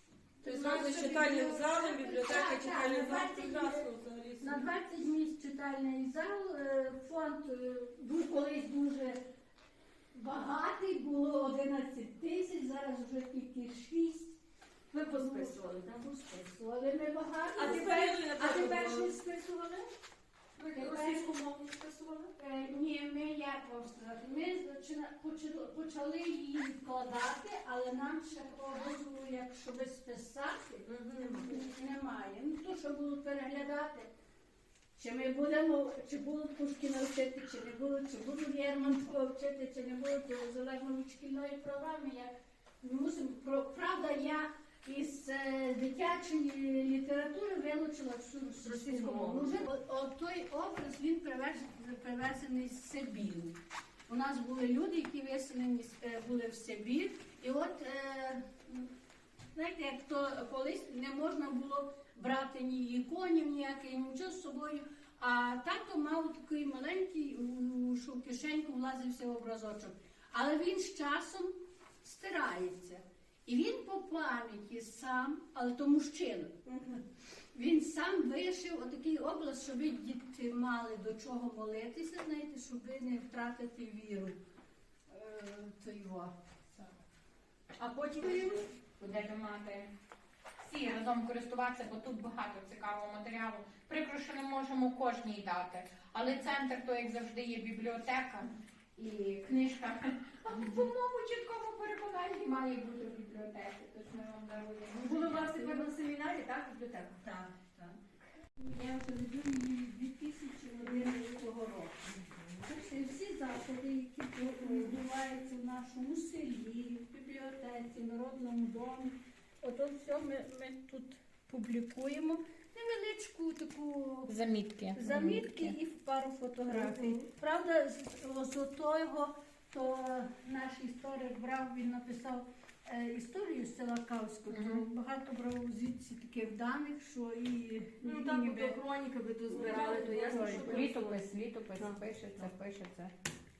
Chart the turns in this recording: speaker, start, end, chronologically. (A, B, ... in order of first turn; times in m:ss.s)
0:00.4-0:03.9 A
0:00.4-0:04.6 B
0:04.4-0:09.2 A
0:10.1-0:14.4 A
0:14.9-0:16.0 B
0:15.0-0:19.9 A
0:17.6-0:19.2 B
0:20.6-0:22.3 B
0:20.7-0:21.3 A
0:22.4-0:34.1 A
0:30.9-0:31.6 B
0:35.0-0:58.9 A
0:48.6-0:49.6 B
0:59.5-1:17.0 A
1:17.5-1:24.4 A
1:25.1-1:26.3 A
1:27.8-1:28.7 B
1:29.0-1:29.9 C
1:30.6-1:45.9 C
1:45.0-1:47.9 B
1:48.6-2:04.4 A
2:04.3-2:05.8 C
2:04.9-2:18.8 A
2:06.7-2:07.2 B
2:14.5-2:14.8 C
2:18.0-2:21.2 B
2:19.5-2:20.9 A
2:20.6-2:23.1 C